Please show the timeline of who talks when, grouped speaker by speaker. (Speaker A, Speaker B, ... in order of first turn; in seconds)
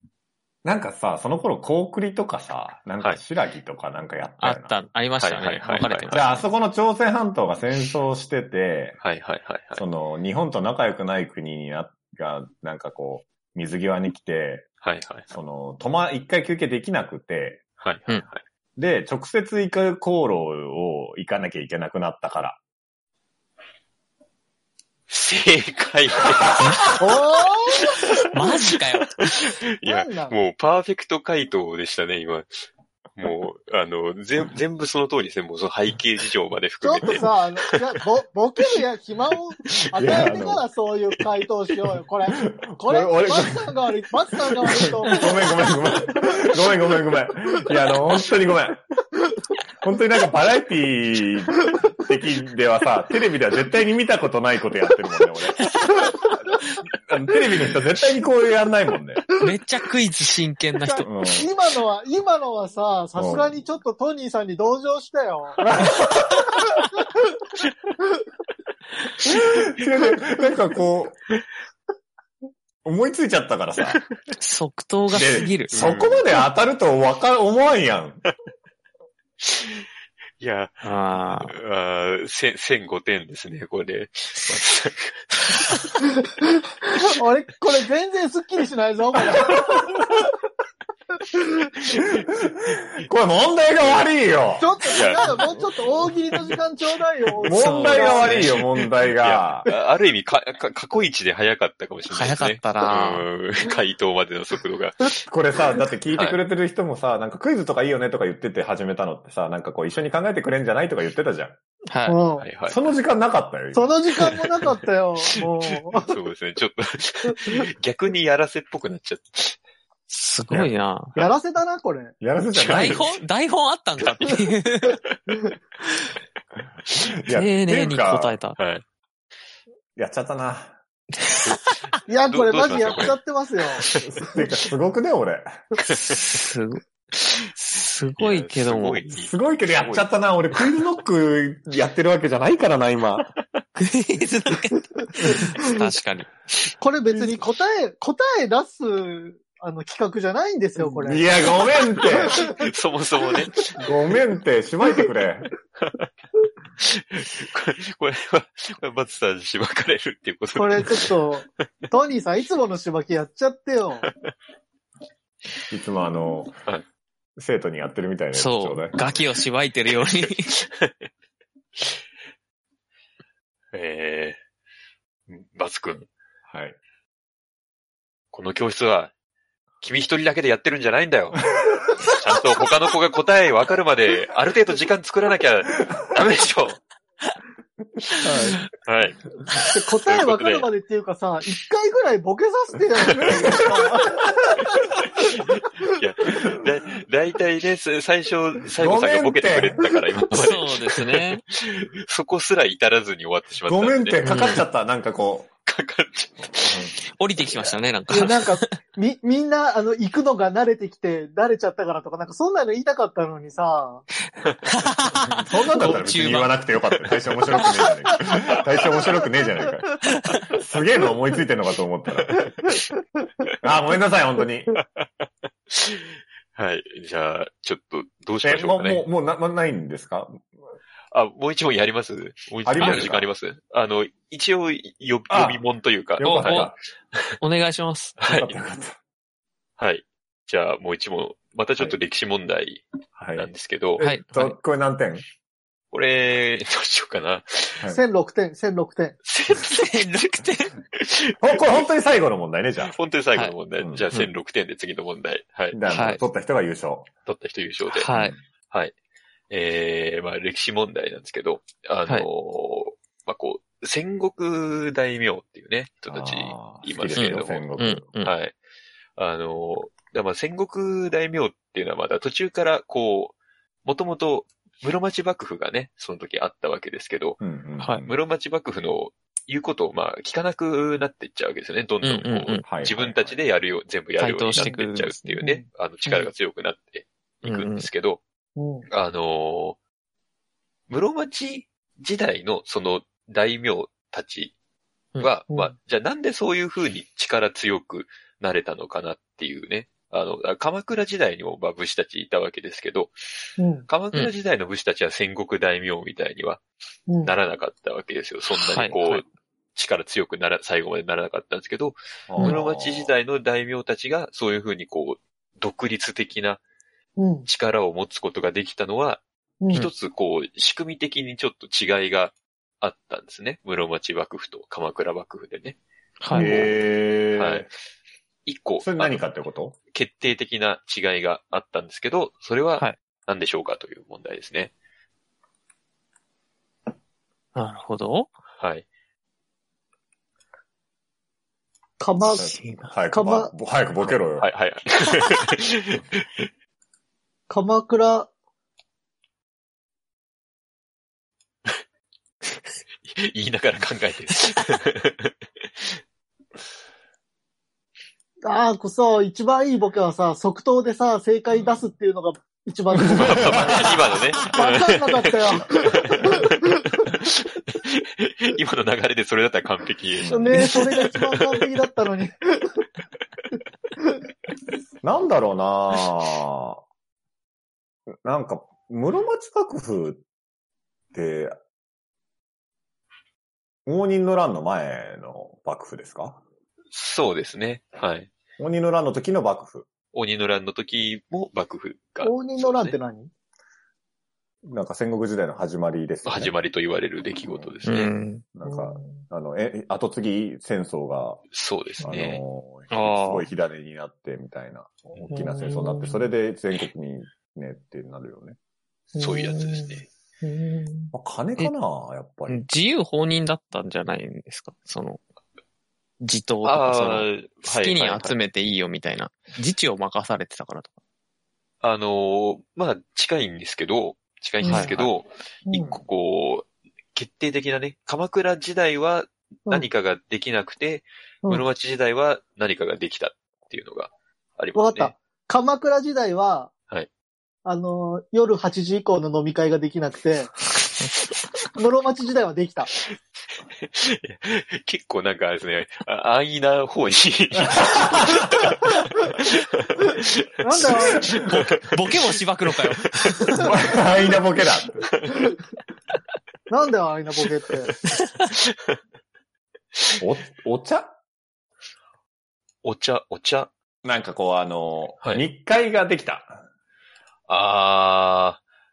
Speaker A: 0.6-4.8, 6.0-9.0, 9.7-14.7, 15.3-17.6, 18.8-22.6, 40.0-40.6, 42.5-43.7, 45.0-48.8, 49.8-59.3, 61.0-61.5, 63.1-63.6, 65.6-66.8, 69.2-71.2, 72.8-74.0, 75.1-78.2, 89.2-90.1, 92.7-96.1, 97.4-99.7, 105.2-111.6, 112.7-113.9, 122.2-123.2, 127.2-128.4, 129.9-130.8, 133.9-135.4, 139.2-143.3, 147.1-147.4, 150.8-152.4, 153.8-155.5, 165.7-166.6, 167.4-169.0, 176.5-176.8, 188.2-188.7, 193.2-193.8, 198.8-199.8, 203.7-205.5, 206.6-206.9, 215.3-222.4, 223.6-224.7, 228.4-230.4, 232.6-233.3, 235.3-235.6, 236.2-236.8, 238.3-239.0, 243.2-243.5, 244.1-245.2, 251.4-253.0, 253.8-254.1, 255.7-257.1, 258.1-258.4, 266.1-268.1, 277.4-278.2, 282.6-283.4, 312.3-313.1, 326.4-327.7, 328.8-329.8, 342.2-344.5, 361.5-361.8, 362.9-364.4, 370.2-370.6, 375.0-376.8, 378.2-380.2, 381.1-381.6, 383.9-386.4, 388.6-389.9, 394.6-396.5, 397.4-397.8, 398.5-401.4, 402.0-408.6, 411.1-412.6, 425.7-426.0, 447.6-448.4, 453.6-455.1, 460.2-461.2, 464.0-466.6
Speaker B: 4.4-6.4, 28.3-29.1, 59.4-61.1, 74.4-75.7, 80.8-81.5, 97.4-98.5, 102.1-103.3, 111.9-112.2, 120.1-121.2, 122.7-125.0, 127.3-128.6, 136.1-139.0, 143.7-146.3, 168.3-170.5, 200.3-201.4, 204.2-204.6, 207.0-208.7, 214.7-216.5, 236.2-236.7, 237.4-238.2, 244.0-244.6, 249.7-250.8, 255.9-256.2, 257.9-258.3, 267.1-268.3, 277.8-278.1, 282.0-282.6, 284.2-285.4, 287.4-287.9, 308.5-309.2, 326.2-326.5, 337.5-338.3, 342.4-342.9, 370.5-370.9, 397.8-398.4, 402.9-403.5, 412.5-415.2, 416.2-420.9, 424.6-425.1, 451.3-453.6
Speaker C: 5.2-6.1, 9.0-9.8, 14.8-15.3, 17.8-18.4, 25.1-27.0, 27.8-28.4, 29.2-32.6, 33.2-37.7, 75.7-76.3, 79.4-79.8, 80.4-80.9, 81.5-85.9, 93.8-94.1, 94.9-95.5, 99.0-105.2, 106.1-106.4, 112.4-112.8, 114.3-114.7, 115.9-119.6, 122.5-123.2, 124.9-125.2, 128.6-128.8, 132.3-133.2, 135.8-136.2, 138.2-140.6, 152.1-153.8, 155.8-156.1, 156.8-161.1, 164.0-164.3, 170.5-171.1, 173.7-174.4, 175.3-176.1, 178.3-179.1, 179.8-186.8, 188.8-189.2, 190.0-190.7, 195.2-204.2, 205.7-207.8, 214.4-214.7, 224.8-229.1, 231.1-236.7, 238.2-238.5, 239.8-244.1, 245.9-247.8, 249.2-250.2, 250.9-251.9, 252.8-255.8, 257.2-258.1, 258.7-258.9, 259.5-267.7, 268.2-268.5, 269.1-277.4, 278.1-288.2, 288.9-289.8, 290.9-294.5, 295.2-303.2, 303.9-306.6, 307.2-316.6, 317.4-325.8, 326.4-326.8, 327.4-327.7, 328.4-329.2, 329.9-334.7, 338.6-338.9, 344.0-346.0, 353.1-355.3, 363.2-366.4, 367.0-371.6, 386.9-388.3, 390.1-393.0, 396.2-398.1, 401.5-402.4, 409.2-410.1, 416.6-418.4, 421.8-435.1, 443.8-452.1, 452.8-453.7, 455.1-455.4, 458.6-459.0, 462.8-463.7, 465.2-465.5, 467.5-468.6
Speaker D: 27.0-28.0, 29.8-30.4, 36.8-46.0, 60.8-65.6, 86.8-89.9, 94.6-98.3, 112.1-112.5, 113.7-116.1, 117.3-117.5, 121.2-122.1, 132.1-133.8, 146.8-151.5, 152.1-152.5, 160.5-164.0, 189.7-194.3, 208.1-214.0, 247.9-249.2, 285.4-286.3, 288.6-288.9, 303.6-303.9, 307.1-307.3, 317.2-317.5, 319.6-319.9, 326.3-326.6, 342.0-342.5, 343.1-343.5, 347.5-348.3, 358.4-366.2, 370.2-372.4, 392.2-393.3, 398.6-399.2, 405.3-406.3, 409.1-411.1, 424.6-424.9, 425.6-425.9, 434.7-436.7, 437.6-440.5, 441.8-442.9, 450.6-451.2, 456.7-457.9